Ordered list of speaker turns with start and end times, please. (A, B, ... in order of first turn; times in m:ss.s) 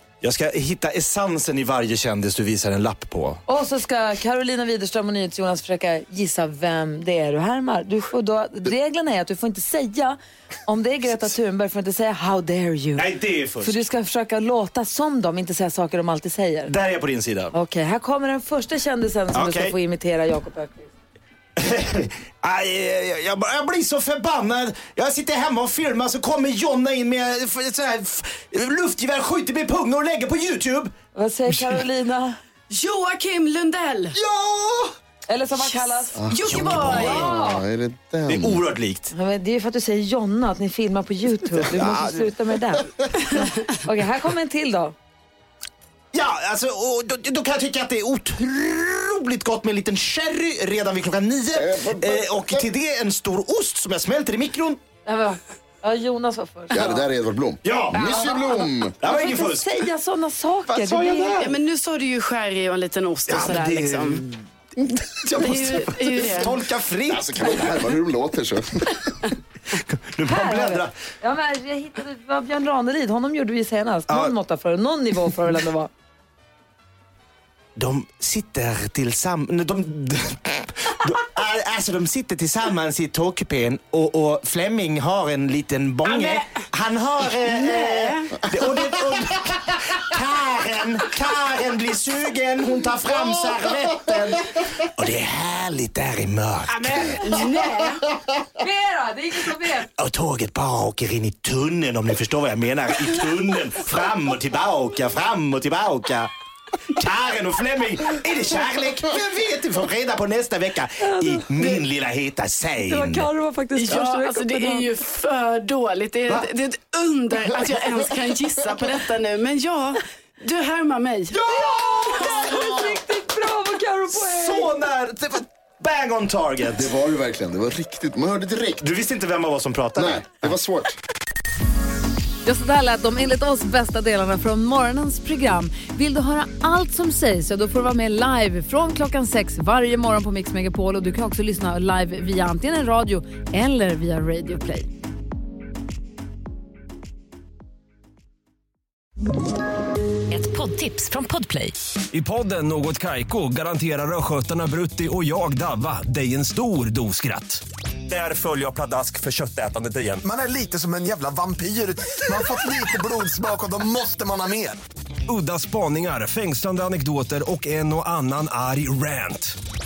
0:00.2-0:03.4 A
0:03.5-0:13.1 B
0:13.0-0:13.8 A
0:13.6-0:16.7 B
0:16.7-0:17.5 A
0:17.5-0:20.9 B
0:19.3-0:19.7 A
0:21.6-0:30.9 A
0:31.1-0:32.4 B
0:31.5-0:31.8 A
0:32.7-0:34.2 C
0:35.3-0:37.6 B
0:35.6-0:37.3 C
0:36.2-0:38.6 D
0:38.3-0:39.1 A
0:39.1-0:44.9 B
0:41.7-0:42.3 A
0:46.1-0:54.8 A
0:55.0-0:56.9 B
0:56.7-0:59.0 D
0:57.6-0:58.2 A
0:57.9-1:01.5 B
0:59.0-0:59.7 A
1:00.7-1:01.5 A
1:01.4-1:04.2 C
1:03.3-1:04.4 A
1:05.0-1:05.6 D
1:05.4-1:06.5 C
1:06.3-1:07.5 A
1:07.1-1:09.0 D
1:09.8-1:11.0 A
1:10.2-1:15.9 B
1:14.1-1:14.4 A
1:17.8-1:36.7 A
1:26.0-1:26.6 C
1:27.4-1:28.4 C
1:36.7-1:38.0 C
1:38.5-1:39.9 B
1:39.9-1:46.3 A
1:47.0-1:53.3 A
1:51.0-1:51.8 B
1:52.8-1:54.8 B
1:53.8-2:01.4 C
2:01.4-2:04.7 B
2:01.6-2:02.6 D
2:04.1-2:06.9 A
2:06.7-2:08.8 D
2:08.8-2:10.5 A
2:10.0-2:11.0 D
2:12.4-2:24.9 B
2:30.3-2:31.7 B
2:32.1-2:40.2 E
2:40.2-2:44.8 F
2:45.3-2:49.6 E